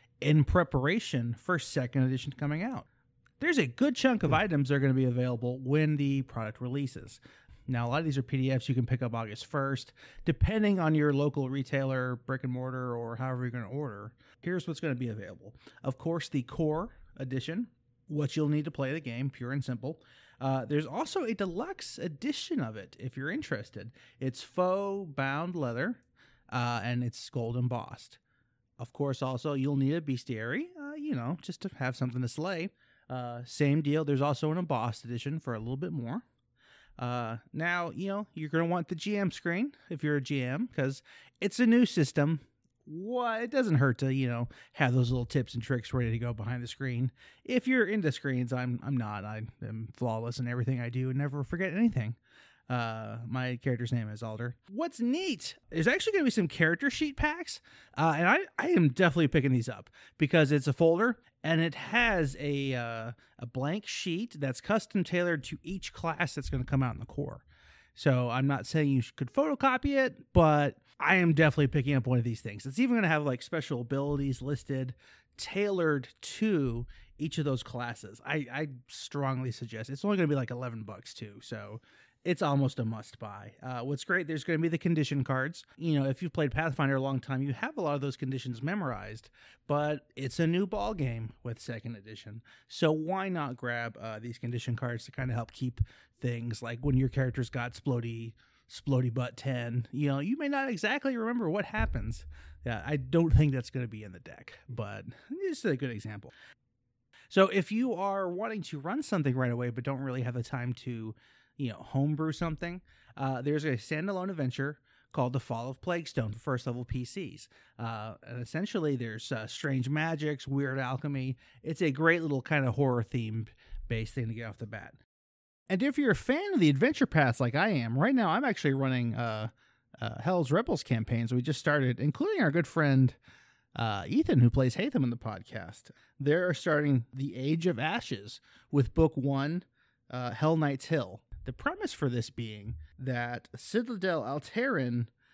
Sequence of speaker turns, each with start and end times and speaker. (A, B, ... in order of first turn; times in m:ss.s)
0:00.2-0:02.8 A
0:03.4-0:26.0 A
0:26.5-0:28.2 A
0:28.8-0:36.2 A
0:37.0-0:52.2 A
0:52.7-1:07.4 A
1:07.9-1:46.3 A
1:47.3-2:05.0 A
2:05.7-2:13.2 A
2:13.8-2:25.1 A